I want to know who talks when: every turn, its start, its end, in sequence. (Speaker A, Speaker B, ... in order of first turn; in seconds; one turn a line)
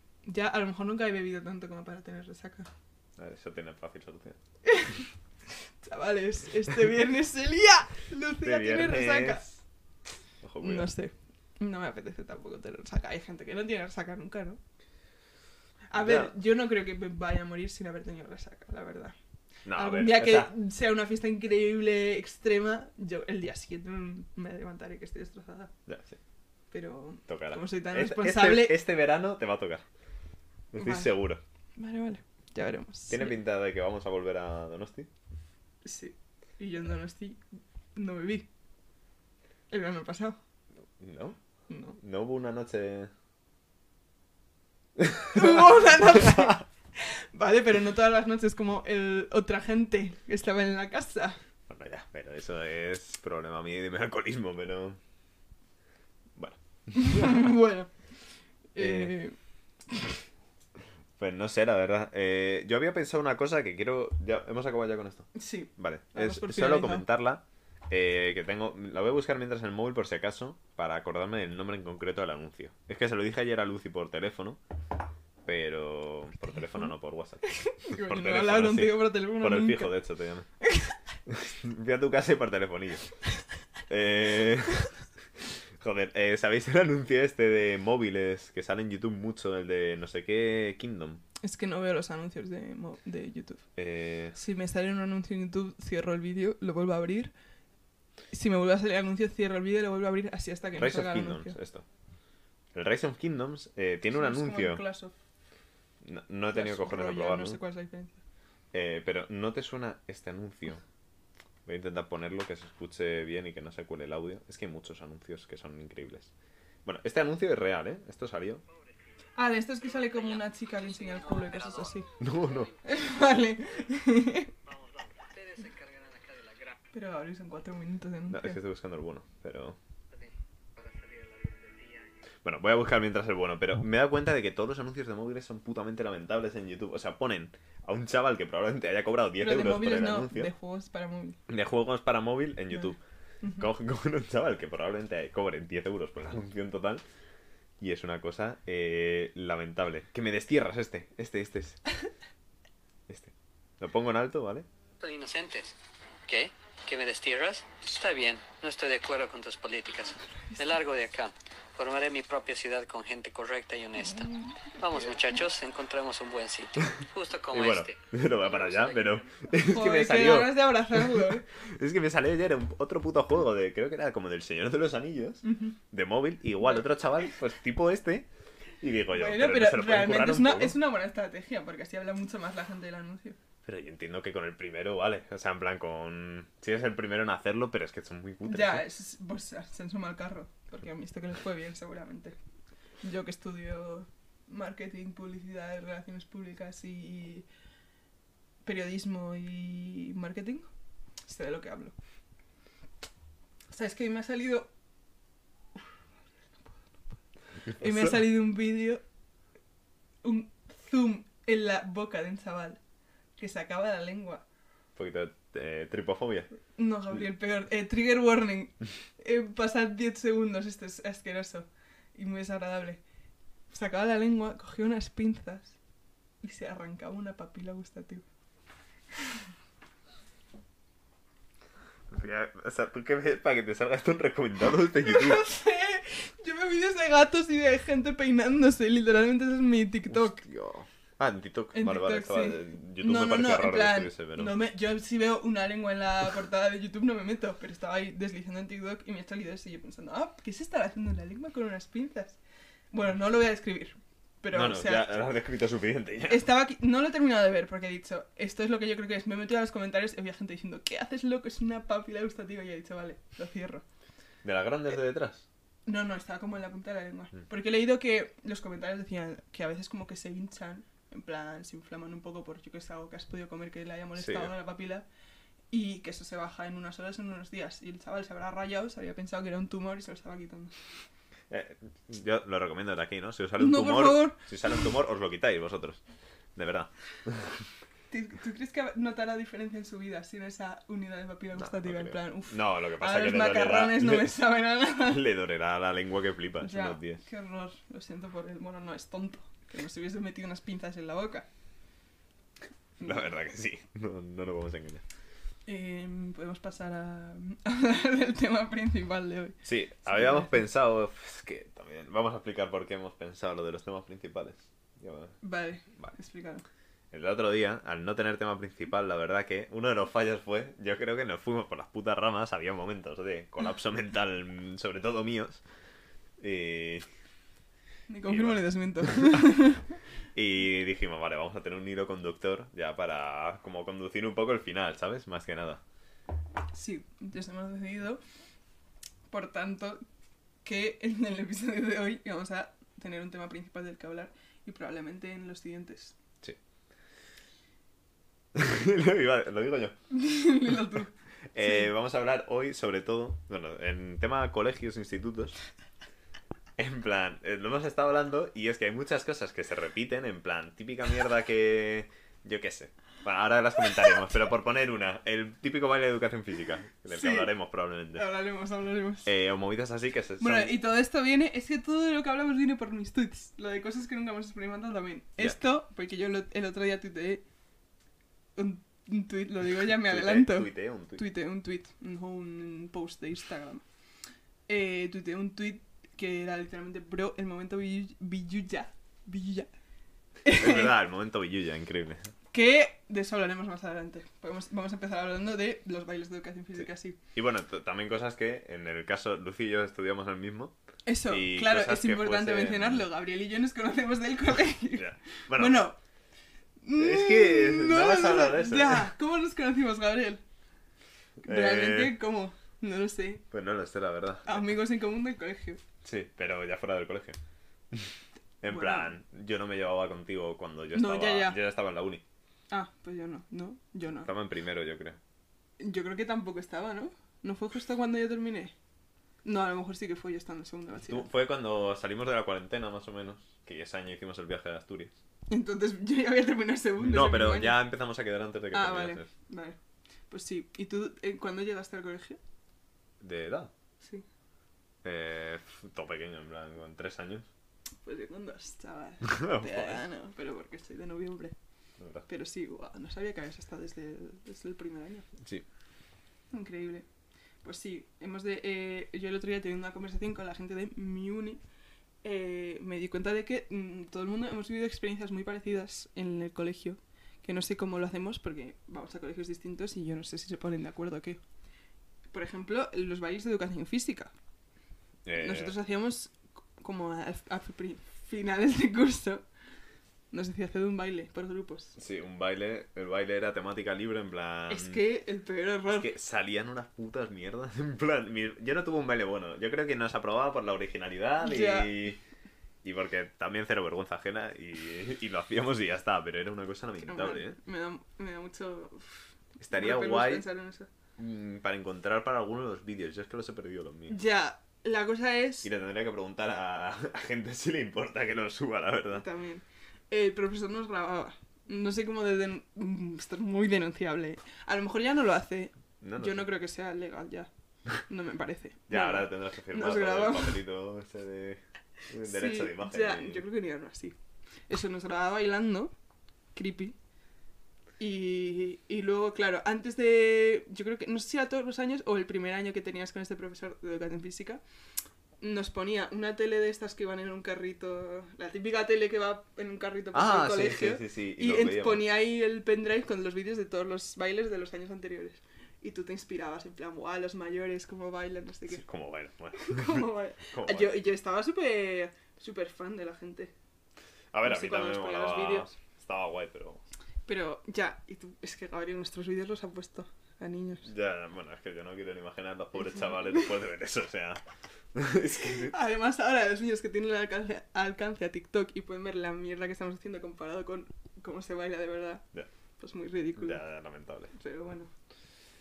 Speaker A: 0.2-2.7
Speaker B: 3.2-4.4
Speaker A: 4.6-5.0
Speaker A: 5.8-9.5
Speaker B: 8.4-9.6
Speaker B: 10.4-10.9
Speaker A: 10.6-14.6
Speaker A: 15.9-19.1
Speaker B: 15.9-16.3
Speaker B: 19.6-20.5
Speaker A: 19.7-25.7
Speaker B: 25.9-26.2
Speaker A: 26.7-28.8
Speaker B: 27.3-29.8
Speaker B: 30.7-31.4
Speaker A: 30.8-31.1
Speaker A: 31.8-33.3
Speaker B: 33.1-35.1
Speaker A: 35.8-37.4
Speaker A: 37.9-38.5
Speaker A: 39.7-40.4
Speaker B: 41.0-41.4
Speaker A: 41.7-42.0
Speaker B: 42.0-43.1
Speaker B: 45.0-45.3
Speaker A: 45.3-51.4
Speaker B: 51.7-55.0
Speaker B: 56.3-57.5
Speaker A: 56.9-57.9
Speaker A: 58.7-59.4
Speaker B: 58.8-59.1
Speaker B: 61.2-74.6
Speaker A: 65.3-67.0
Speaker B: 75.4-80.5
Speaker A: 77.4-80.0
Speaker A: 80.6-80.9
Speaker B: 81.3-83.1
Speaker B: 83.9-84.9
Speaker B: 85.8-91.2
Speaker A: 91.4-93.6
Speaker B: 93.8-94.3
Speaker A: 94.3-97.3
Speaker A: 98.3-101.5
Speaker B: 100.8-101.8
Speaker B: 102.7-104.8
Speaker A: 104.1-105.1
Speaker B: 106.0-107.6
Speaker A: 106.5-108.2
Speaker B: 108.7-110.8
Speaker B: 111.7-116.3
Speaker B: 116.8-118.6
Speaker A: 119.3-122.1
Speaker C: 119.8-123.0
Speaker B: 122.2-122.7
Speaker A: 122.8-124.5
Speaker C: 124.7-126.8
Speaker A: 126.9-128.6
Speaker B: 128.3-129.8
Speaker C: 130.1-132.1
Speaker B: 132.4-140.5
Speaker A: 139.4-141.4
Speaker B: 141.5-143.0
Speaker B: 143.6-147.0
Speaker B: 147.8-151.8
Speaker B: 153.1-154.7
Speaker C: 155.0-155.8
Speaker C: 156.3-169.4
Speaker A: 164.1-164.6
Speaker B: 167.5-178.3
Speaker A: 169.5-171.4
Speaker A: 175.4-175.8
Speaker B: 178.8-180.8
Speaker A: 179.1-183.4
Speaker B: 183.6-188.8
Speaker A: 188.4-192.3
Speaker A: 193.0-197.4
Speaker A: 198.6-200.7
Speaker A: 201.2-201.9
Speaker A: 203.7-204.7
Speaker B: 207.7-208.2
Speaker A: 207.8-209.0
Speaker A: 210.2-212.8
Speaker A: 213.4-214.4
Speaker B: 214.9-216.5
Speaker A: 216.8-223.0
Speaker A: 223.7-225.8
Speaker A: 226.4-228.2
Speaker B: 232.1-235.4
Speaker A: 235.0-240.4
Speaker B: 240.1-244.6
Speaker A: 241.7-252.4
Speaker A: 252.9-255.2
Speaker B: 254.5-256.4
Speaker A: 256.3-263.8
Speaker B: 264.4-265.4
Speaker A: 265.9-275.1
Speaker B: 274.2-274.5
Speaker A: 275.7-280.7
Speaker B: 281.5-286.0
Speaker A: 283.6-284.5
Speaker B: 286.5-287.6
Speaker A: 288.1-295.2
Speaker B: 291.6-294.4
Speaker B: 295.0-297.2
Speaker A: 296.6-301.4
Speaker B: 303.0-305.0
Speaker A: 305.6-310.6
Speaker B: 309.6-315.4
Speaker A: 315.4-316.6
Speaker B: 317.1-325.6
Speaker B: 326.4-327.1
Speaker A: 328.1-329.9
Speaker B: 328.3-329.4
Speaker B: 330.3-335.8
Speaker A: 336.7-338.2
Speaker A: 339.3-340.0
Speaker A: 340.6-346.1
Speaker B: 348.5-349.9
Speaker A: 350.1-351.8
Speaker B: 351.5-355.6
Speaker B: 356.8-368.2
Speaker A: 367.1-367.5
Speaker A: 368.1-369.3
Speaker B: 369.2-370.8
Speaker A: 370.4-377.4
Speaker A: 378.6-383.8
Speaker B: 379.8-381.2
Speaker A: 384.7-389.7
Speaker A: 390.4-390.9
Speaker B: 390.5-392.3
Speaker A: 392.5-397.2
Speaker B: 397.3-400.7
Speaker A: 401.1-406.0
Speaker B: 401.3-403.1
Speaker B: 405.0-405.8
Speaker A: 406.8-410.4
Speaker B: 407.0-409.1
Speaker B: 411.4-412.2
Speaker A: 411.4-413.4
Speaker B: 413.5-414.7
Speaker A: 414.4-415.8
Speaker B: 416.0-417.4
Speaker B: 418.6-422.2
Speaker A: 418.6-419.1
Speaker A: 420.9-421.6
Speaker A: 422.7-424.3
Speaker B: 424.2-425.2
Speaker A: 425.8-428.7
Speaker A: 429.4-431.3
Speaker B: 431.0-435.1
Speaker A: 435.5-437.8
Speaker B: 437.0-439.3
Speaker A: 438.7-439.8
Speaker A: 440.3-442.4
Speaker B: 443.2-443.7
Speaker B: 445.0-447.5
Speaker A: 448.0-451.5
Speaker B: 449.2-450.0
Speaker B: 452.0-452.2
Speaker A: 452.2-455.3
Speaker A: 456.5-457.1
Speaker A: 457.6-461.6
Speaker A: 462.2-471.4
Speaker A: 472.3-474.3
Speaker B: 475.2-475.7
Speaker A: 475.3-479.4
Speaker A: 480.3-482.0
Speaker B: 482.0-485.0
Speaker A: 484.7-486.1
Speaker B: 485.9-492.2
Speaker A: 491.4-492.1
Speaker B: 492.8-497.6
Speaker A: 497.0-500.9
Speaker B: 499.6-500.4
Speaker B: 501.2-504.2
Speaker A: 504.1-505.7
Speaker B: 505.6-509.2
Speaker A: 509.1-517.5
Speaker B: 516.0-516.5
Speaker A: 518.0-520.6
Speaker B: 518.9-523.4
Speaker A: 522.2-524.1
Speaker A: 524.7-525.9
Speaker A: 526.5-527.0
Speaker A: 528.0-534.6
Speaker A: 535.4-548.8
Speaker B: 540.1-542.0
Speaker B: 548.7-551.0
Speaker A: 549.5-553.5
Speaker B: 554.3-556.8
Speaker A: 554.4-555.7
Speaker A: 557.2-560.9
Speaker B: 560.8-564.4
Speaker B: 564.9-565.7
Speaker A: 565.4-572.2
Speaker A: 572.8-573.6
Speaker B: 573.4-574.3
Speaker A: 574.3-574.9